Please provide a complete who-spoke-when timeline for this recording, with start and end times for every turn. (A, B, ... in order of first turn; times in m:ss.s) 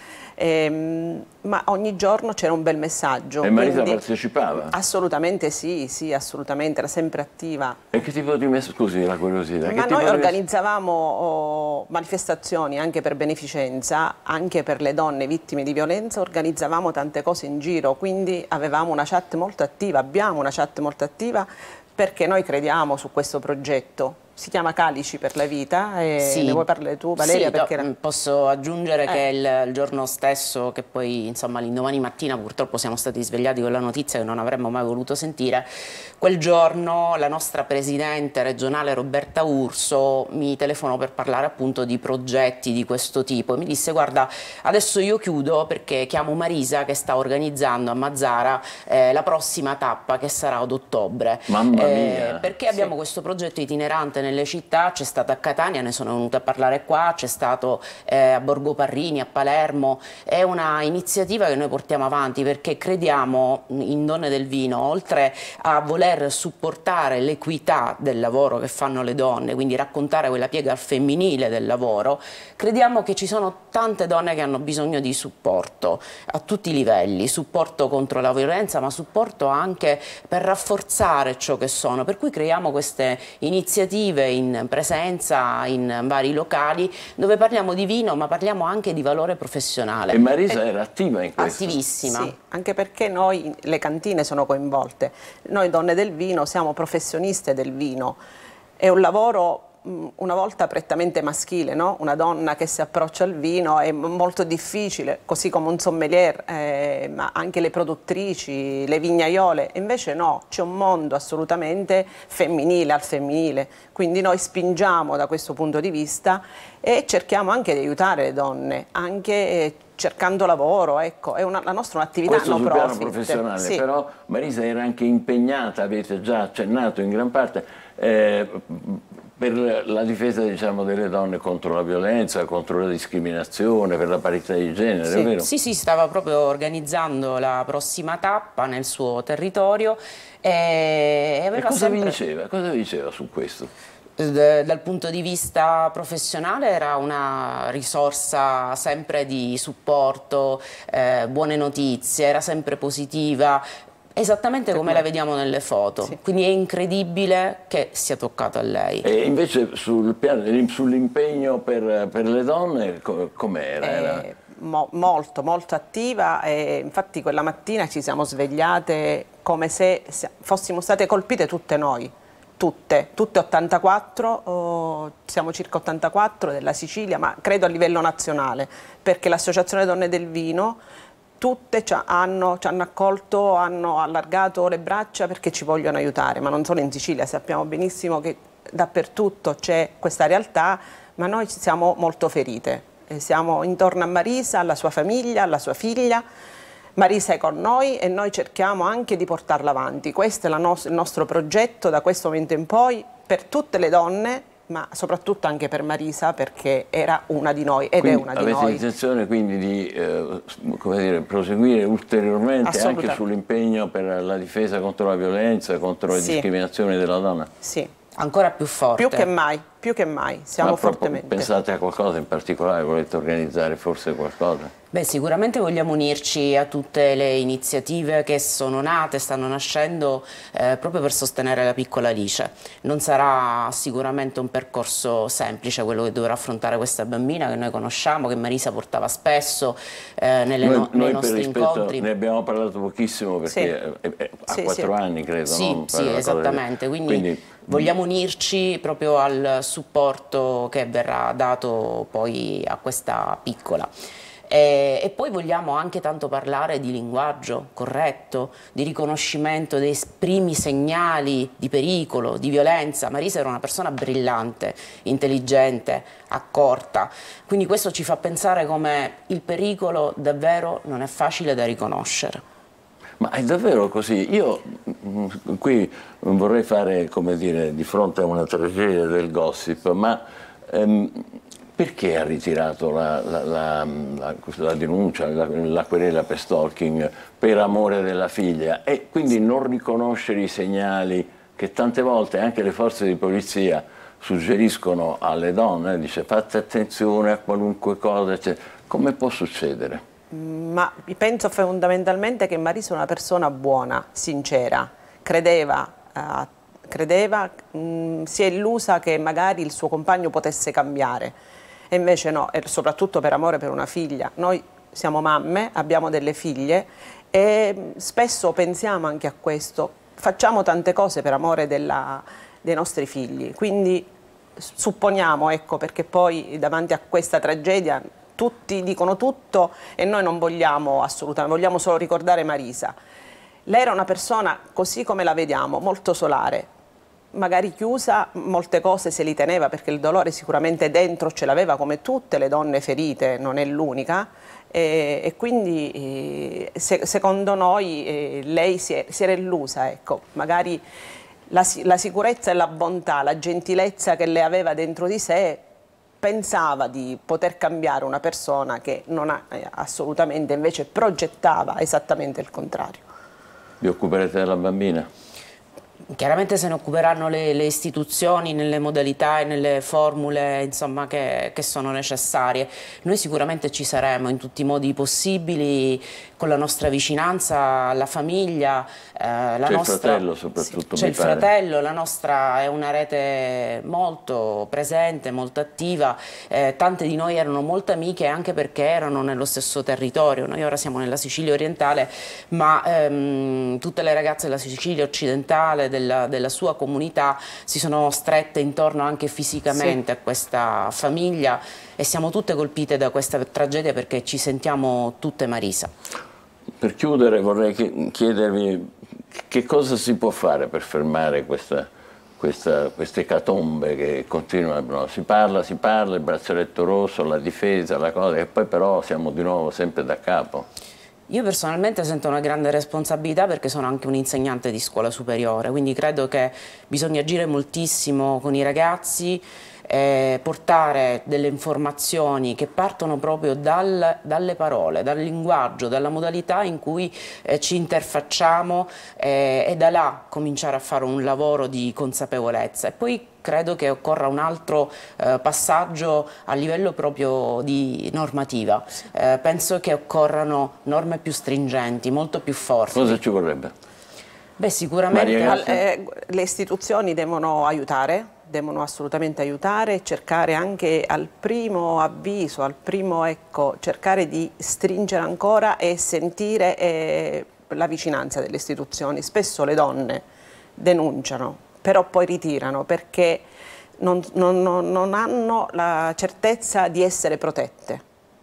0:00.4-0:04.0 A
0:03.4-0:04.7 B
0:04.6-0:07.8 A
0:07.9-0:10.4 B
0:09.6-0:27.8 A
0:26.2-0:26.6 C
0:27.2-0:35.7 C
0:36.2-1:30.6 C
0:51.5-0:52.9 B
1:30.1-1:31.8 B
1:31.4-1:32.3 C
1:32.0-1:38.2 A
1:38.8-2:03.8 A
2:02.2-2:15.5 B
2:15.4-2:22.2 C
2:21.6-2:23.7 B
2:24.2-2:33.6 C
2:34.2-2:39.1 C
2:34.7-2:35.0 A
2:39.0-2:44.2 B
2:43.8-3:00.8 A
3:01.4-3:16.2 A
3:17.0-3:28.8 A
3:28.0-3:37.5 B
3:32.6-3:33.2 A
3:36.1-3:36.4 A
3:37.6-3:37.9 A
3:38.2-3:39.3 C
3:39.0-3:41.5 A
3:40.6-3:44.7 B
3:44.9-4:02.1 C
4:00.6-4:07.9 B
4:03.5-4:03.7 A
4:04.5-4:04.9 A
4:05.4-4:13.9 C
4:14.5-4:32.4 C
4:33.2-5:00.0 B
5:00.3-5:11.4 A
5:11.9-5:33.0 A
5:33.7-5:36.7 A
5:37.3-5:50.8 A
5:51.5-5:55.6 A
5:56.2-6:03.0 A
6:03.8-6:05.1 B
6:06.1-6:45.9 C
6:19.6-6:21.5 B
6:46.8-7:00.7 B
7:01.3-7:33.2 C
7:32.9-7:33.7 B
7:34.6-7:35.8 C
7:35.1-7:35.8 B
7:35.5-7:50.2 A
7:50.8-7:53.4 A
7:54.0-7:58.0 A